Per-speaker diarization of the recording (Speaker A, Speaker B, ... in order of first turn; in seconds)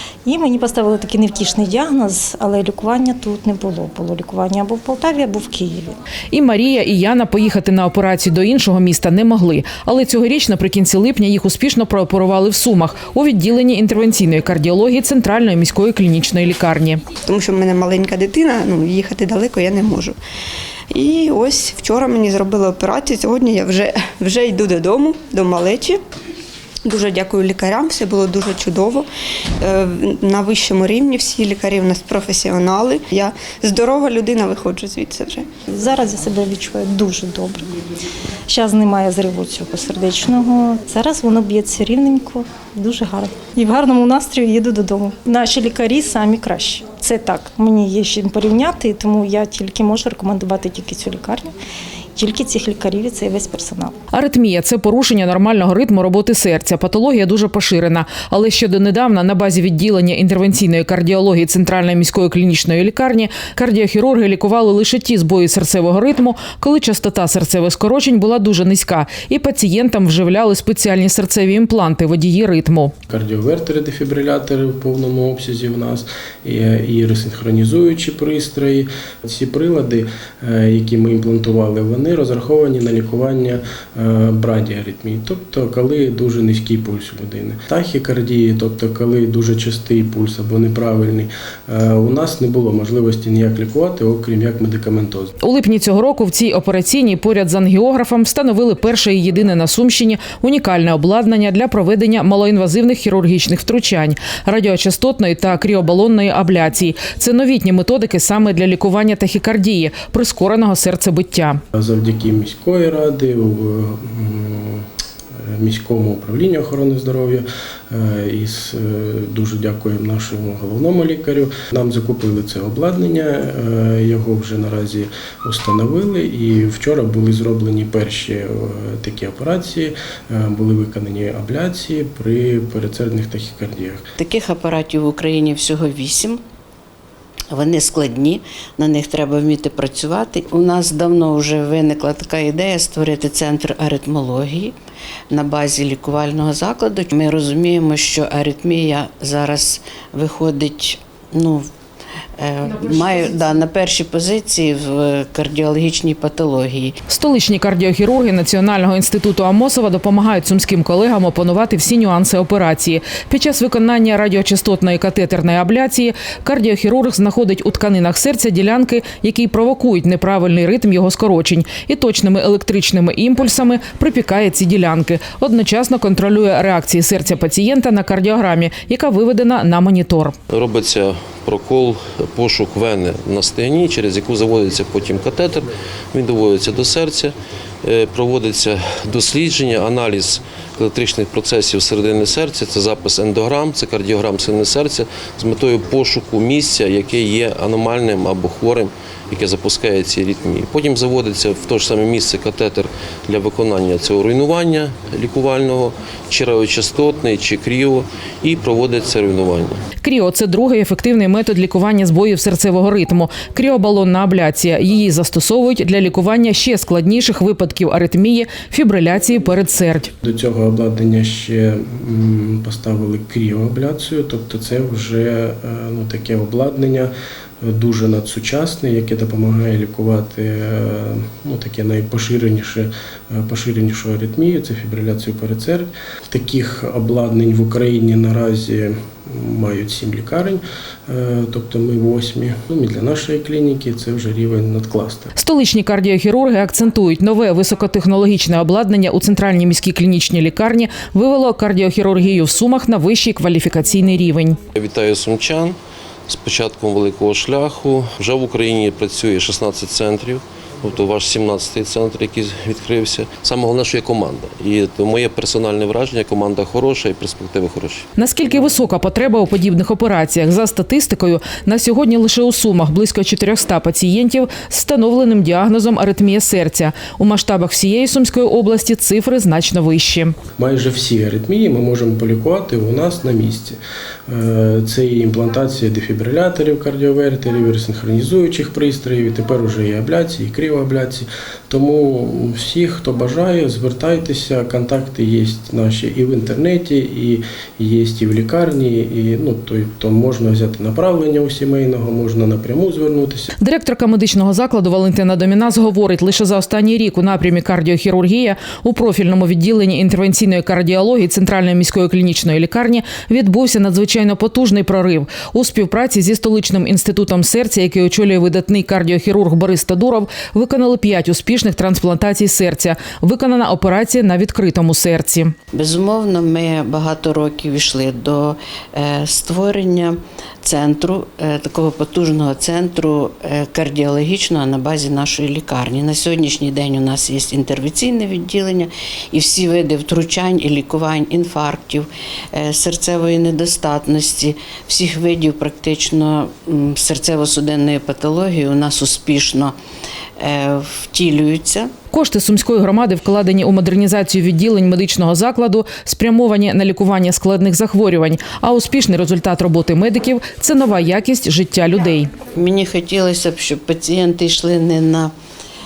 Speaker A: 0.2-6.0, 35.8-37.7, 38.5-51.5, 52.1-53.9
Speaker B: 6.3-17.0, 54.1-72.9, 95.4-111.6, 152.9-153.4, 157.1-180.3, 210.0-220.1, 245.4-254.6, 268.2-280.4, 303.6-325.5, 352.1-362.3
Speaker C: 17.3-20.2, 20.9-26.0, 26.9-29.1, 29.6-35.5
Speaker D: 73.1-95.3, 111.7-114.9, 115.5-134.1, 220.2-227.1, 227.6-245.3, 280.6-303.5
Speaker E: 134.2-136.4, 137.5-144.7, 145.3-151.7, 152.4-156.9, 325.7-349.8, 350.4-351.9, 362.5-365.3
Speaker F: 180.5-209.8, 254.8-268.1